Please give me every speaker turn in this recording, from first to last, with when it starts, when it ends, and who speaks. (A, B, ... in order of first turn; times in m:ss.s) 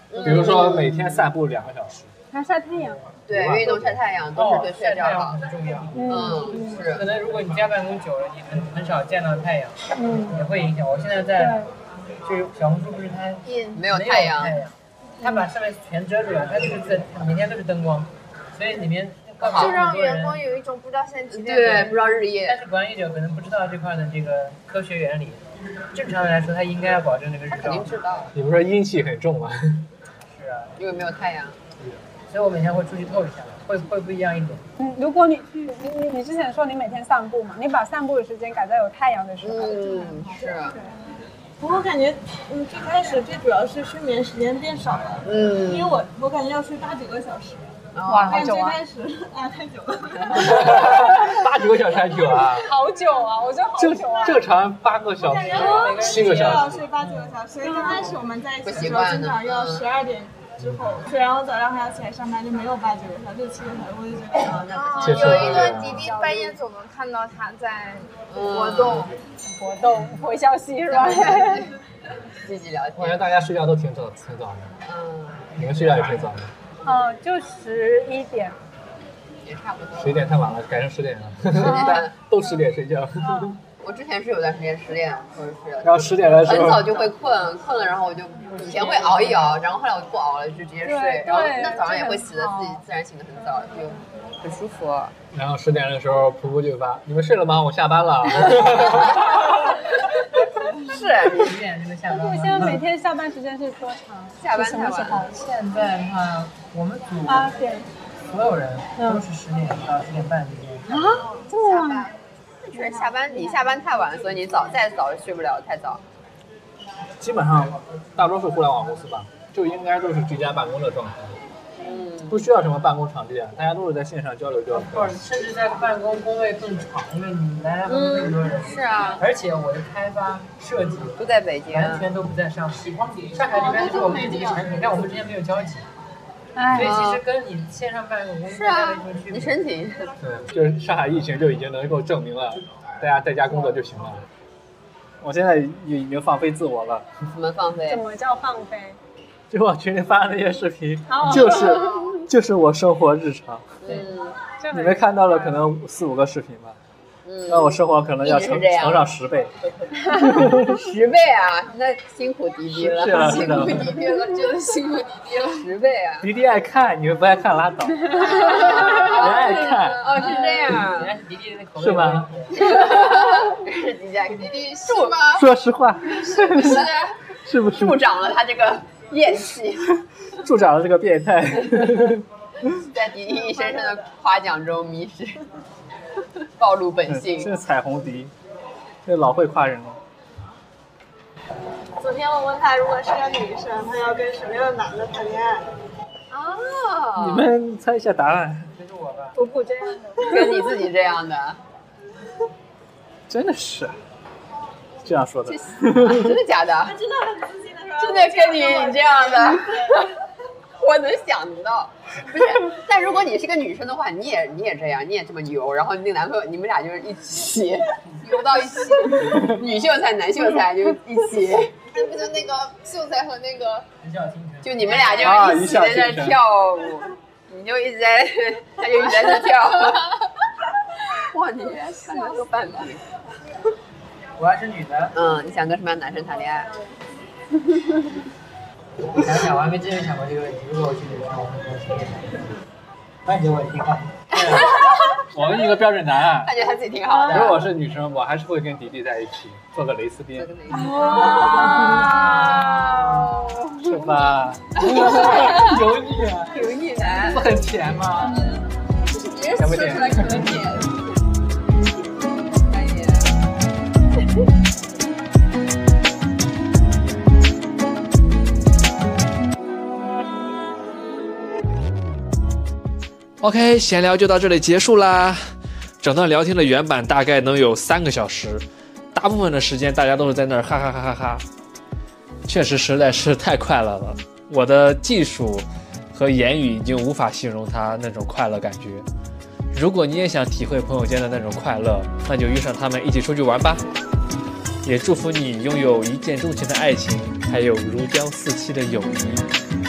0:00.1-0:01.2 A
0:00.1-0:02.1 B
0:02.3-0:03.0 C
0:03.3-0:05.4 A
0:03.3-0:04.0 B
0:04.3-0:11.6 D
0:05.9-0:06.8 C
0:06.0-0:07.0 A
0:09.9-0:10.4 C
0:11.4-0:11.7 C
0:12.2-0:20.4 D
0:13.4-0:13.9 E
0:13.7-0:14.6 A
0:15.2-0:15.4 C
0:19.4-0:19.8 A
0:19.5-0:22.2 E
0:21.3-0:22.6 A
0:22.4-0:28.0 D
0:27.5-0:28.3 A
0:28.3-0:29.9 B
0:30.2-0:30.8 D
0:30.8-0:31.6 A
0:32.3-0:34.6 D
0:34.8-0:40.8 C
0:39.4-0:40.8 A
0:41.6-0:51.1 F
0:45.2-0:46.0 A
0:47.9-0:48.5 A
0:48.0-0:48.8 C
0:50.3-0:50.7 A
0:50.3-0:52.7 B
0:52.5-0:54.4 C
0:53.8-0:56.9 B
0:55.2-1:04.7 F
0:55.3-0:57.3 D
0:57.6-0:58.1 C
0:58.6-0:59.9 A
1:00.6-1:01.0 B
1:04.4-1:05.9 A
1:04.7-1:09.2 E
1:05.0-1:06.0 B
1:05.8-1:06.6 C
1:08.3-1:09.1 A
1:09.4-1:11.7 C
1:10.9-1:11.7 A
1:12.4-1:13.2 A
1:13.0-1:14.8 B
1:14.8-1:16.2 A
1:15.5-1:16.5 B
1:16.8-1:18.6 C
1:19.4-1:20.3 A
1:19.9-1:23.6 B
1:21.5-1:22.1 A
1:23.3-1:23.5 C
1:23.8-1:35.1 A
1:25.8-1:27.1 B
1:28.6-1:29.6 D
1:30.8-1:32.8 C
1:35.3-1:39.5 B
1:38.4-1:39.7 A
1:40.8-1:41.5 A
1:41.2-1:42.8 D
1:42.1-1:45.3 C
1:44.4-1:45.3 A
1:45.3-1:47.6 D
1:47.2-1:47.9 C
1:48.2-1:51.2 D
1:49.0-1:49.2 C
1:50.9-1:52.1 C
1:51.1-1:52.1 E
1:52.6-1:56.0 A
1:52.7-1:53.7 C
1:57.2-2:01.4 B
2:01.8-2:02.4 A
2:02.3-2:05.2 B
2:04.7-2:15.9 D
2:07.9-2:09.2 A
2:11.2-2:12.1 A
2:16.6-2:17.0 C
2:16.7-2:19.6 D
2:16.8-2:17.2 A
2:18.5-2:20.1 A
2:20.2-2:24.2 B
2:25.2-2:27.1 B
2:27.3-2:28.0 A
2:27.9-2:29.0 C
2:29.5-2:33.8 B
2:31.1-2:31.9 C
2:31.6-2:32.1 E
2:33.8-2:34.4 A
2:34.6-2:35.7 C
2:34.7-2:36.8 B
2:37.2-2:39.1 A
2:37.5-2:39.5 B
2:40.0-2:44.6 A
2:40.2-2:40.8 B
2:42.7-2:44.0 B
2:43.7-2:45.7 E
2:45.4-2:46.3 A
2:46.2-2:50.3 B
2:48.1-2:51.1 A
2:48.4-2:49.1 E
2:50.1-2:52.9 D
2:51.8-2:52.3 B
2:52.5-2:55.3 A
2:54.4-2:55.5 E
2:55.3-2:56.9 B
2:56.1-2:59.9 A
2:56.6-2:56.9 E
2:57.4-2:58.0 B
3:00.4-3:02.7 B
3:02.9-3:05.4 A
3:03.6-3:03.9 F
3:06.6-3:07.5 A
3:07.1-3:08.3 B
3:09.0-3:10.0 B
3:12.0-3:15.6 F
3:16.3-3:17.5 A
3:17.2-3:18.7 B
3:18.8-3:19.4 D
3:19.3-3:20.7 C
3:20.2-3:21.6 A
3:23.3-3:24.0 B
3:25.0-3:26.4 B
3:25.4-3:27.0 A
3:26.8-3:30.0 F
3:28.0-3:30.2 A
3:30.8-3:41.8 A
3:41.9-3:43.9 E
3:44.0-3:45.1 D
3:44.6-3:50.2 A
3:44.9-3:45.3 E
3:45.2-3:46.4 B
3:51.1-3:53.0 A
3:54.4-3:55.2 D
3:55.1-3:56.7 A
3:59.1-4:02.5 D
4:03.2-4:04.7 D
4:04.3-4:05.2 A
4:05.3-4:06.5 B
4:06.4-4:07.7 A
4:07.1-4:07.6 C
4:07.3-4:10.5 B
4:10.3-4:14.1 A
4:10.7-4:12.5 C
4:11.6-4:12.0 B
4:13.8-4:18.5 B
4:14.8-4:17.6 A
4:18.3-4:20.9 A
4:19.6-4:20.6 B
4:22.6-4:23.3 A
4:33.4-4:35.4 G
4:36.0-4:41.4 G
4:42.4-4:49.0 G
4:49.7-4:53.8 G
4:54.8-4:59.5 G